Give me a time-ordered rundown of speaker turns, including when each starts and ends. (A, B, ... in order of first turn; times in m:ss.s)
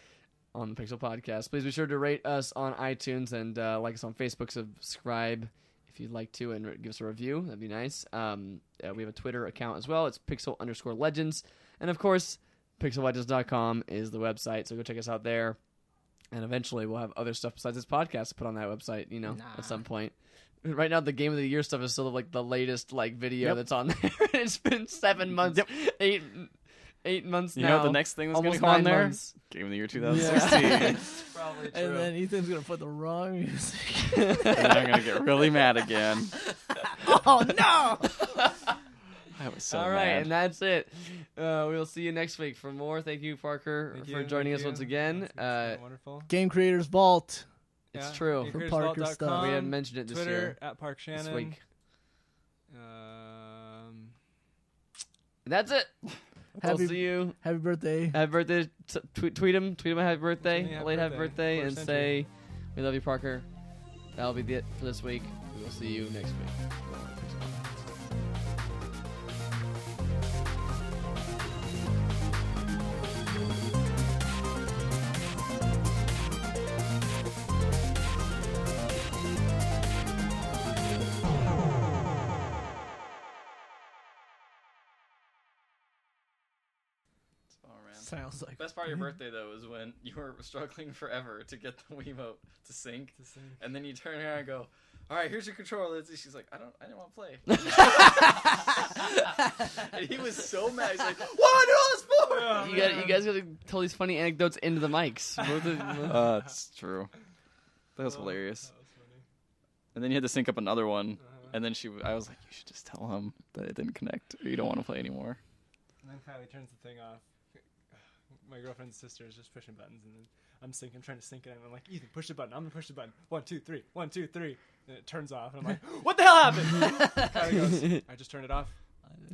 0:00.5-0:15.6 A
0:16.3-0:26.5 A
0:19.3-0:19.8 B
0:27.0-0:29.4 A
0:27.6-0:31.0 C
0:30.0-0:32.1 A
0:30.1-0:34.9 B
0:34.1-0:34.9 A
0:34.5-0:36.3 C
0:37.0-0:38.2 B
0:38.0-0:38.7 A
0:39.4-0:40.3 C
0:39.7-0:45.8 A
0:43.9-0:46.3 D
0:46.3-0:47.5 B
0:47.9-0:51.6 D
0:47.9-0:48.6 A
0:48.4-0:49.6 B
0:49.3-0:50.6 A
0:51.1-0:51.6 A
0:52.7-0:54.1 D
0:55.4-0:55.9 A
0:56.6-0:57.4 A
0:56.6-0:58.2 B
0:58.1-1:03.5 A
1:00.4-1:02.2 D
1:04.2-1:07.9 A
1:27.5-1:43.0 C
1:28.0-1:28.7 B
1:33.2-1:33.6 D
1:37.5-1:38.4 A
1:42.3-1:43.2 D
1:42.5-1:46.2 A
1:45.5-1:46.2 D
1:46.0-1:47.1 C
1:48.0-1:48.7 C
1:48.0-1:49.2 D
1:49.9-1:55.4 C
1:51.2-1:51.5 D
1:56.0-1:57.2 D
1:57.9-2:08.7 D
2:07.7-2:08.0 A